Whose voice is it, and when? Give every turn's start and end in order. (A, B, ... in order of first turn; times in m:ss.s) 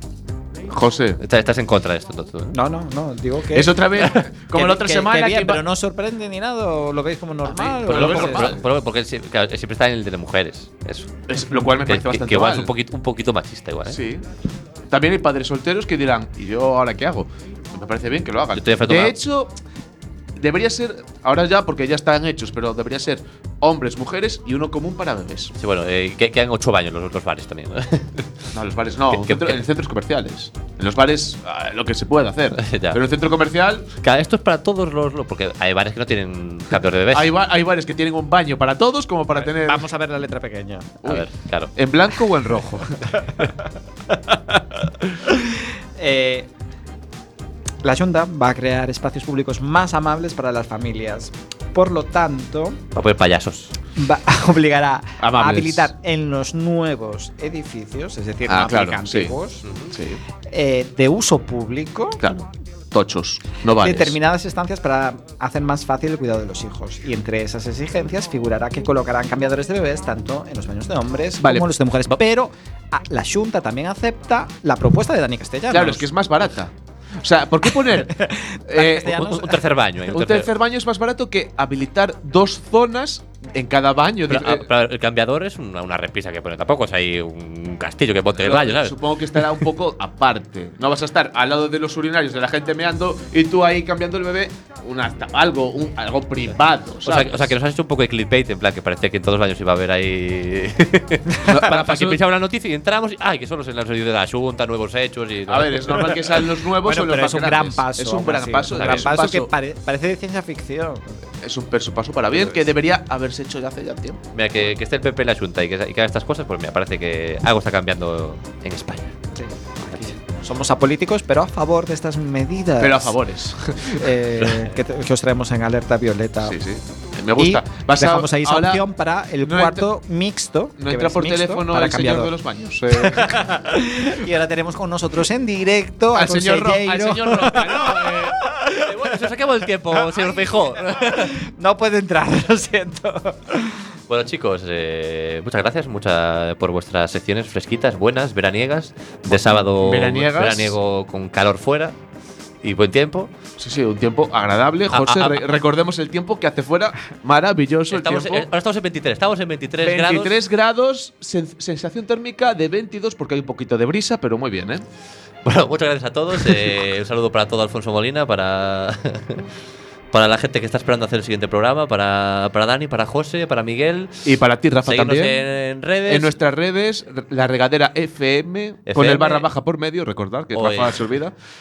0:00.7-0:01.2 A
0:01.2-0:02.6 B
0:02.5-0:08.6 C
0:03.5-0:05.6 A
0:07.6-0:08.6 A
0:07.7-0:11.1 B
0:11.3-0:12.7 A
0:11.8-0:14.0 B
0:13.9-0:14.2 A
0:14.9-0:19.5 A
0:18.5-0:19.1 B
0:20.4-0:25.5 A
0:25.6-0:28.3 B
0:28.5-0:33.9 A
0:29.1-0:29.6 B
0:32.6-0:33.0 B
0:34.0-0:37.3 B
0:37.1-0:39.8 A
0:39.4-0:41.0 C
0:41.0-0:43.1 A
0:41.0-0:41.7 B
0:45.2-0:46.5 C
0:47.8-0:52.8 C
0:52.9-0:53.7 B
0:53.9-0:59.6 C
0:55.2-0:55.9 A
0:58.5-0:59.4 A
0:59.6-0:59.9 B
0:59.9-1:00.2 A
1:00.5-1:02.2 C
1:02.2-1:04.2 A
1:03.7-1:16.1 C
1:11.4-1:11.7 A
1:15.7-1:19.3 A
1:17.8-1:19.6 C
1:19.0-1:20.5 B
1:20.1-1:24.7 A
1:24.3-1:29.0 B
1:28.4-1:37.5 A
1:37.0-1:46.3 B
1:41.4-1:42.2 A
1:45.5-1:49.5 A
1:46.8-1:51.2 C
1:48.7-1:49.1 B
1:51.4-1:54.2 A
1:54.3-1:59.1 B
1:59.3-2:03.2 C
2:02.8-2:04.1 A
2:04.0-2:06.6 C
2:06.4-2:08.8 A
2:07.4-2:12.3 C
2:09.4-2:09.9 A
2:10.8-2:13.6 A
2:12.9-2:19.0 C
2:16.1-2:18.3 A
2:18.8-2:21.4 B
2:19.9-2:23.9 C
2:24.1-2:32.0 B
2:29.3-2:30.8 A
2:32.6-2:33.3 B
2:33.6-2:38.5 A
2:34.9-2:35.4 B
2:37.9-2:40.4 B
2:39.8-2:44.8 A
2:45.4-2:49.4 B
2:50.1-2:54.2 B
2:54.2-2:55.4 A
2:54.8-2:56.3 B
2:56.0-3:01.3 A
2:58.9-2:59.4 B
3:00.5-3:01.0 B